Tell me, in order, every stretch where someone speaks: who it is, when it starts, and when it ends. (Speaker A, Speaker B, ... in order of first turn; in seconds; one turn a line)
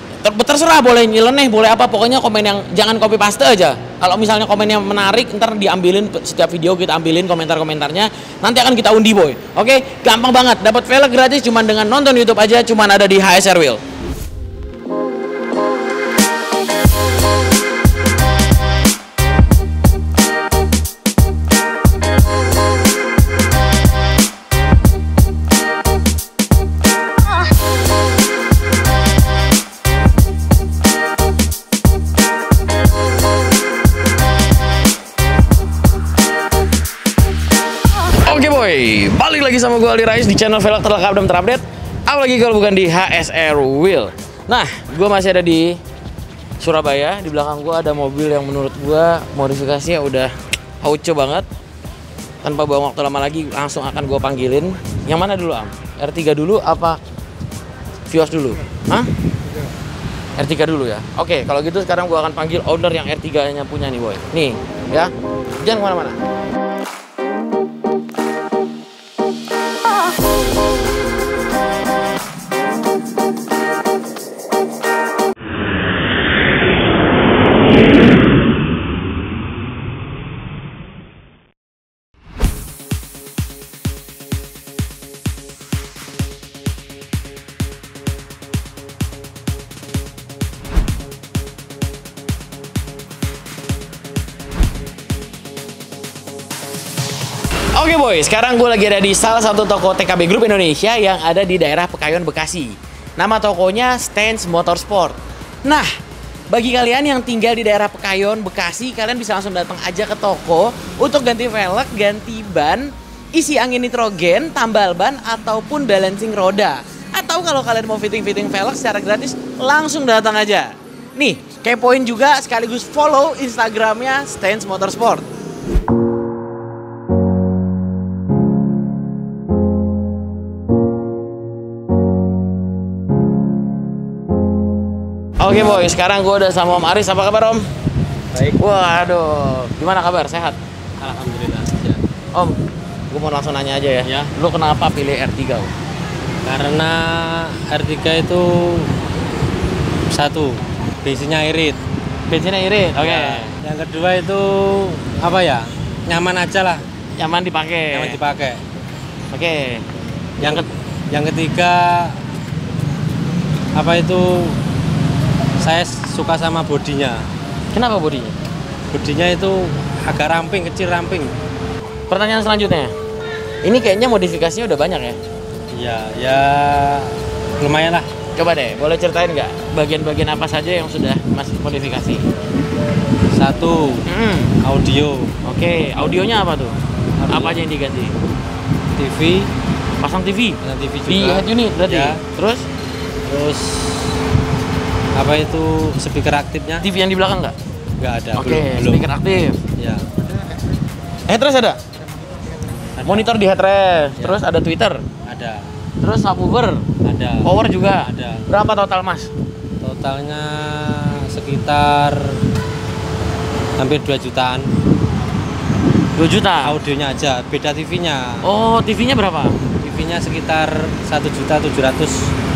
Speaker A: 0.2-13.8
Speaker A: 38.2-45.8
Speaker A: 46.6-51.5
Speaker A: 52.4-57.0
Speaker A: 58.1-59.1
Speaker A: 60.4-66.2
Speaker A: 97.7-105.9
Speaker A: 106.5-125.2
Speaker A: 135.4-137.6
Speaker A: 138.6-140.6
Speaker B: 141.0-142.0
Speaker A: 143.1-145.7
Speaker B: 144.0-144.3
Speaker B: 146.4-148.9
Speaker B: 150.1-151.8
Speaker A: 152.3-153.5
Speaker B: 153.0-156.8
Speaker A: 157.2-158.2
Speaker B: 157.9-158.6
Speaker A: 159.3-159.8
Speaker B: 160.4-162.2
Speaker B: 163.7-164.6
Speaker B: 165.6-167.2
Speaker A: 167.7-168.3
Speaker B: 168.9-171.3
Speaker A: 172.1-172.9
Speaker A: 173.6-175.2
Speaker B: 175.7-178.1
Speaker A: 178.3-182.2
Speaker B: 183.3-184.1
Speaker A: 184.1-184.5
Speaker B: 184.6-185.3
Speaker A: 185.4-188.2
Speaker B: 187.2-187.6
Speaker B: 189.0-189.5
Speaker A: 190.0-192.7
Speaker B: 190.6-192.2
Speaker B: 193.3-194.2
Speaker B: 195.1-196.8
Speaker A: 196.8-197.5
Speaker B: 198.0-199.0
Speaker A: 198.3-199.6
Speaker B: 199.8-200.0
Speaker A: 201.3-201.8
Speaker B: 202.9-203.3
Speaker A: 203.0-205.0
Speaker B: 205.2-205.7
Speaker A: 206.0-206.8
Speaker B: 207.0-208.4
Speaker A: 207.4-209.3
Speaker B: 209.8-212.4
Speaker B: 213.8-214.7
Speaker A: 216.1-216.8
Speaker B: 216.6-218.4
Speaker A: 218.4-219.6
Speaker B: 219.8-222.3